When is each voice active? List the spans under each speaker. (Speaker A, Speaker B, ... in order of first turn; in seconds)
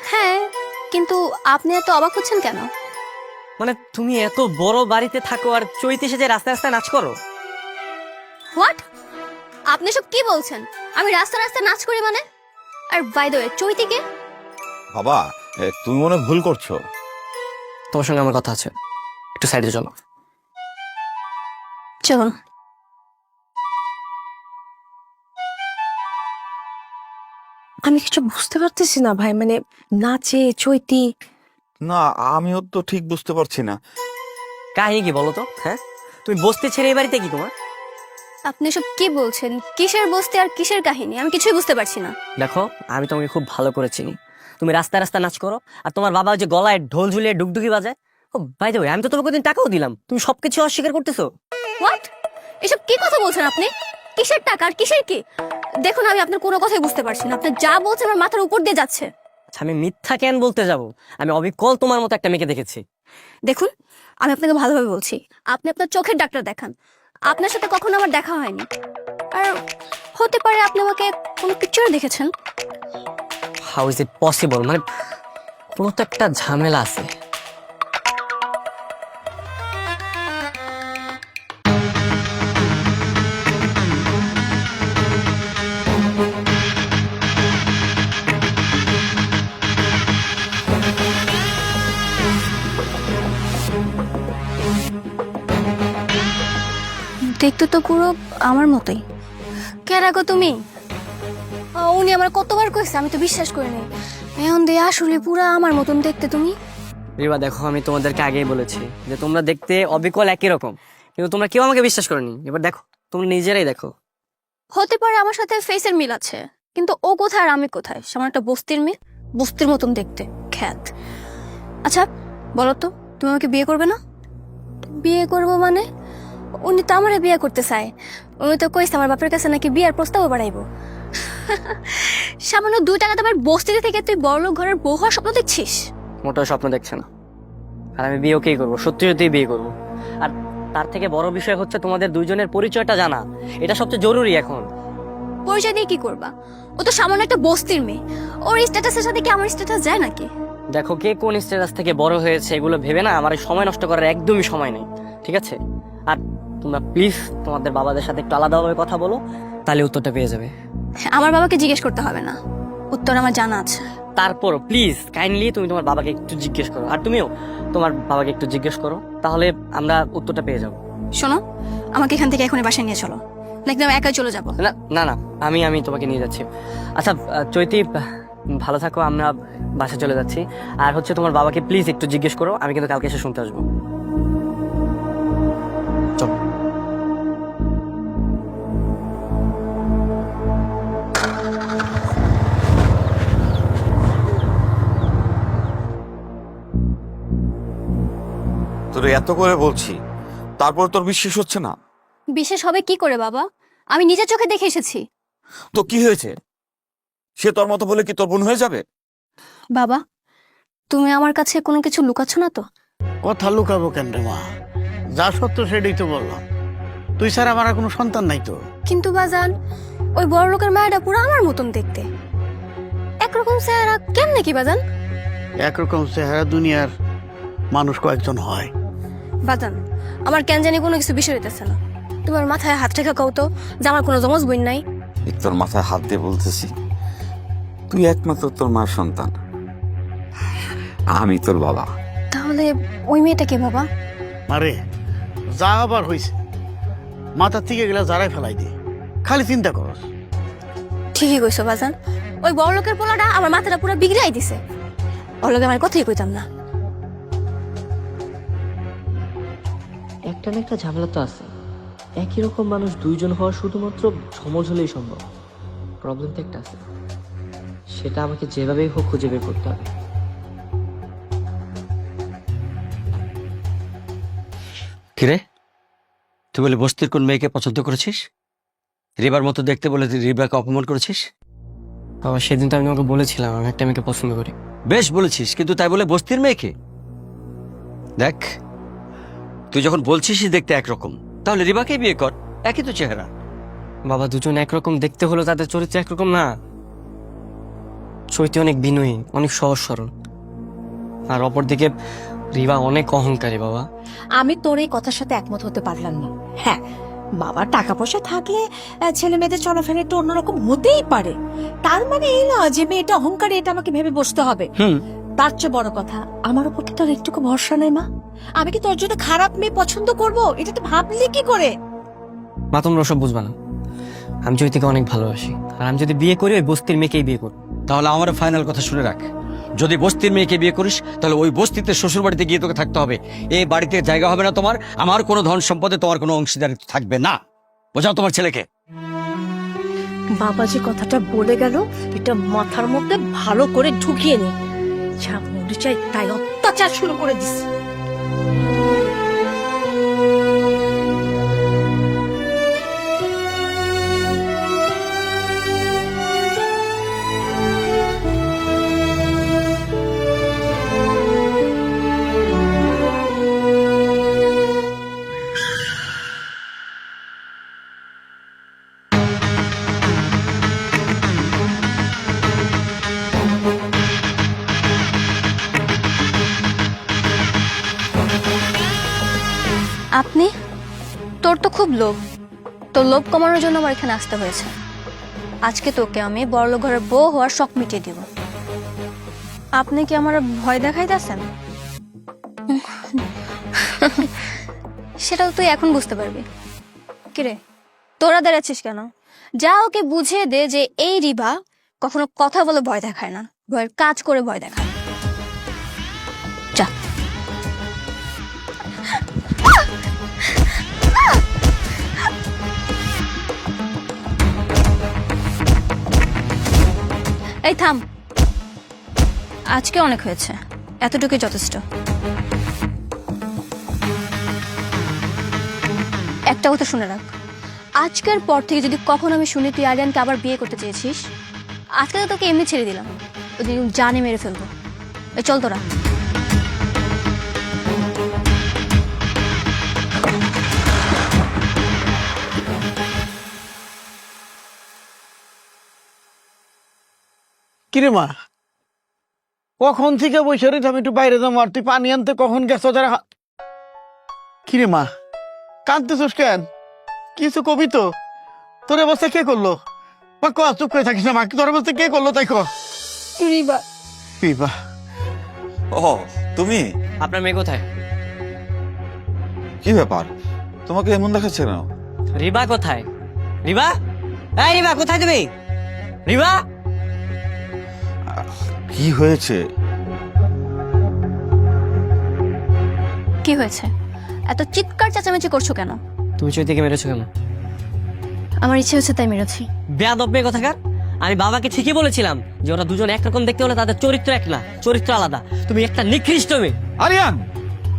Speaker A: 0.1-2.7, 9.7-12.2, 12.9-14.0, 22.0-22.3, 38.5-42.1, 51.8-52.1, 52.6-55.2, 55.8-59.1, 64.2-66.7, 67.3-68.7, 70.2-72.3, 97.4-99.0, 99.9-100.5, 101.8-103.8, 104.4-106.5, 114.8-120.9, 122.6-124.0, 125.0-125.8, 126.7-127.9, 128.4-130.6, 131.3-135.8, 145.5-150.3, 161.1-162.3, 162.9-163.8, 171.9-174.5, 202.3-205.0, 210.9-212.6, 218.9-219.5, 220.2-222.0, 223.2-224.8, 229.5-229.8, 230.3-234.8, 242.3-243.8, 251.1-251.9, 252.4-254.6, 255.4-256.4, 380.2-380.5, 381.4-382.1, 382.9-384.7, 385.7-388.2, 389.8-391.4, 392.7-393.2, 394.0-394.5, 395.2-396.4, 398.2-399.0, 399.6-401.5, 402.0-404.9, 417.7-418.0, 419.7-421.8, 426.5-427.3, 428.0-431.2, 432.0-433.1, 433.6-434.7, 435.4-435.8, 463.4-463.8, 483.4-483.9, 484.5-486.0, 488.6-489.7
Speaker B: 3.6-7.1, 17.9-18.7, 19.4-19.9, 34.8-37.5, 42.4-51.3, 59.5-62.8, 73.7-74.8, 75.8-77.1, 107.2-113.9, 136.2-137.1, 138.0-139.7, 140.2-144.7, 150.7-155.6, 156.1-160.5, 164.2-170.8, 174.6-177.9, 178.6-183.6, 282.2-284.5, 294.1-296.5, 298.3-300.1, 301.3-301.9, 302.5-303.9, 322.7-323.5, 324.4-327.6, 467.2-467.8, 472.4-473.1, 473.6-473.9, 474.6-475.5, 476.2-476.6, 486.4-487.3, 490.0-496.8
Speaker C: 14.9-16.8, 31.8-33.8, 198.9-200.0, 200.6-201.7, 205.7-206.3, 207.4-208.8, 235.2-236.7, 237.9-239.3, 241.1-241.9, 465.9-466.8, 469.8-470.3, 470.9-471.9, 478.3-479.6, 497.0-497.4
Speaker D: 27.9-31.1, 304.4-306.8, 307.4-311.3, 311.9-314.7, 315.4-318.1, 318.6-321.7, 340.4-344.5, 345.2-347.6
Speaker E: 213.2-214.4, 215.2-216.4, 217.2-218.6, 225.6-226.9, 227.7-228.7, 244.5-244.8, 245.6-246.3, 247.4-248.7, 249.2-250.0, 447.9-448.3, 449.8-453.2, 454.7-455.1, 455.9-456.6, 457.4-458.1, 458.9-459.8, 460.4-462.6, 464.4-464.7
Speaker F: 260.3-261.5, 262.2-265.2, 266.0-266.8, 267.9-269.9
Speaker G: 275.2-275.4, 276.5-278.2, 279.2-281.2, 284.9-286.7, 288.2-288.5, 289.7-293.3, 327.9-329.2, 329.8-337.4, 337.9-338.6